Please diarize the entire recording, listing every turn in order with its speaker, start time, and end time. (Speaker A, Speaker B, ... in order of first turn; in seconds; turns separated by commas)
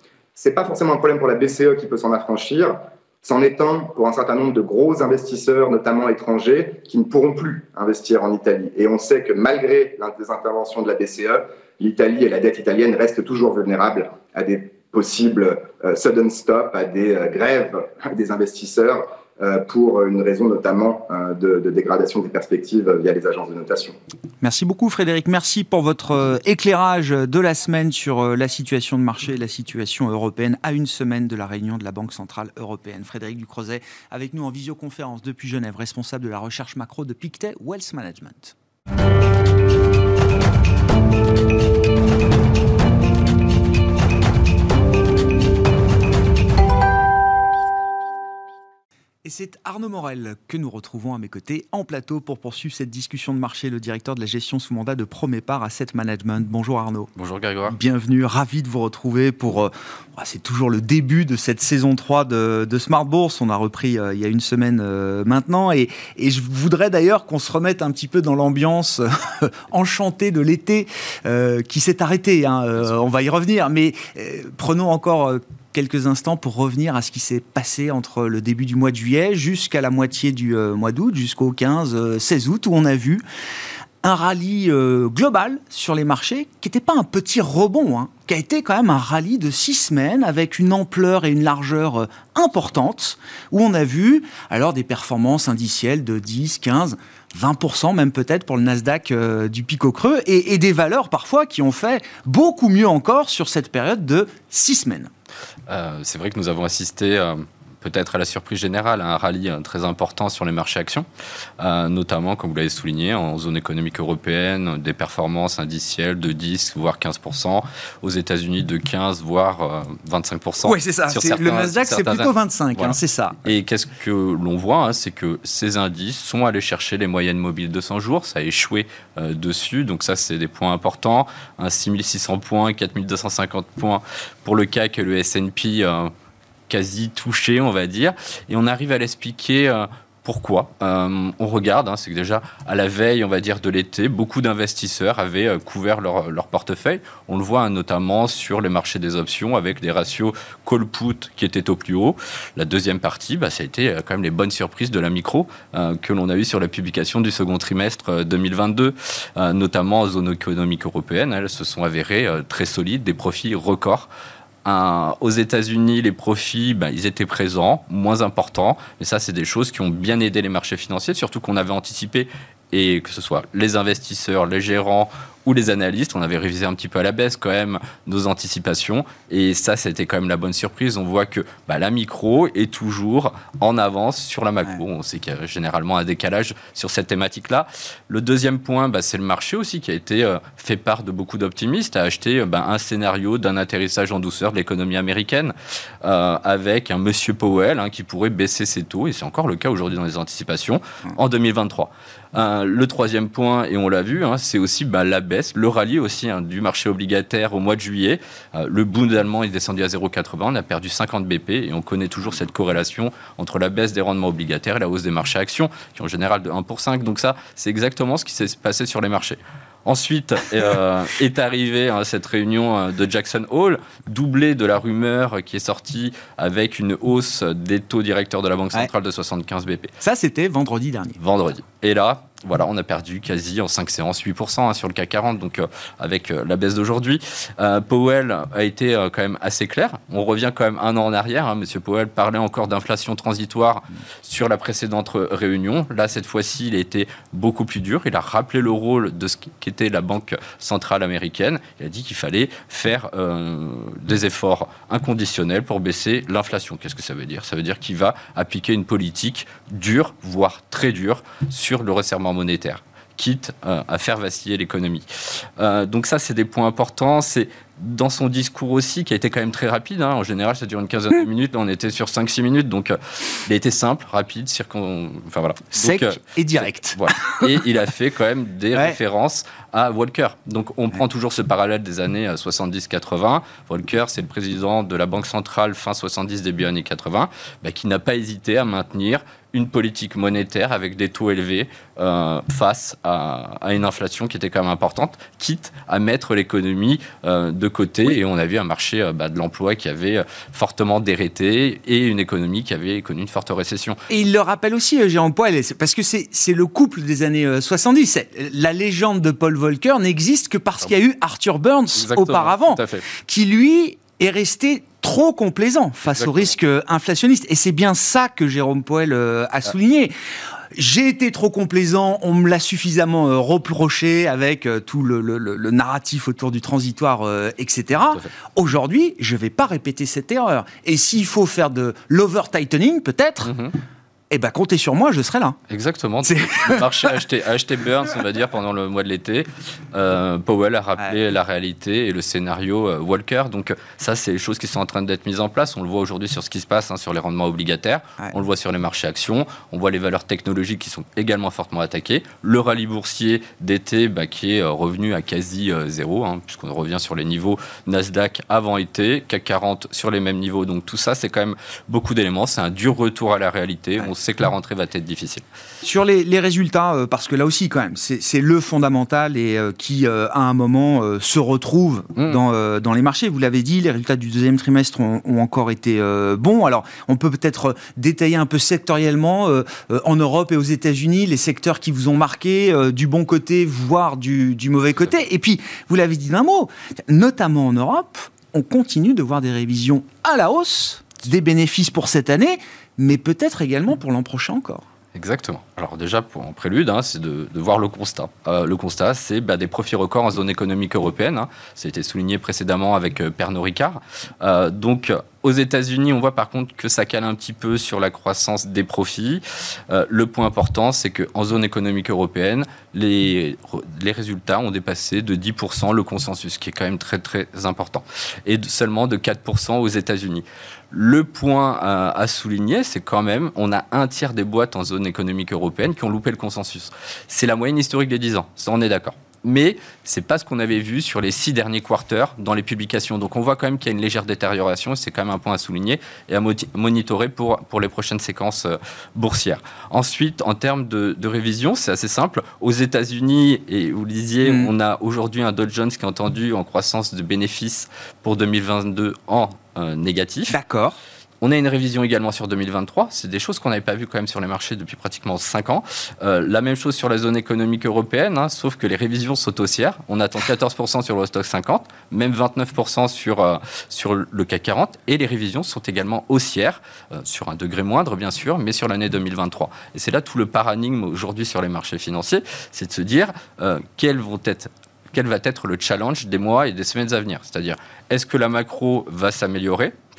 Speaker A: 0.3-23.9, Speaker B: 24.4-38.5, Speaker B: 49.2-57.1, Speaker C: 57.2-57.8, Speaker B: 57.7-83.2, Speaker B: 84.0-105.1, Speaker C: 105.7-111.1, Speaker C: 111.6-136.1, Speaker B: 120.6-123.4, Speaker C: 136.7-164.1, Speaker C: 164.7-229.9, Speaker B: 230.0-231.2, Speaker C: 231.2-304.0, Speaker B: 275.7-277.6, Speaker B: 304.1-320.1, Speaker C: 312.0-313.1, Speaker B: 320.7-333.5, Speaker C: 333.4-333.8, Speaker B: 334.3-335.6, Speaker C: 335.7-365.4, Speaker B: 336.2-337.2, Speaker B: 365.8-394.9, Speaker C: 395.1-450.6, Speaker B: 444.4-444.7, Speaker B: 450.5-451.0, Speaker C: 451.4-479.9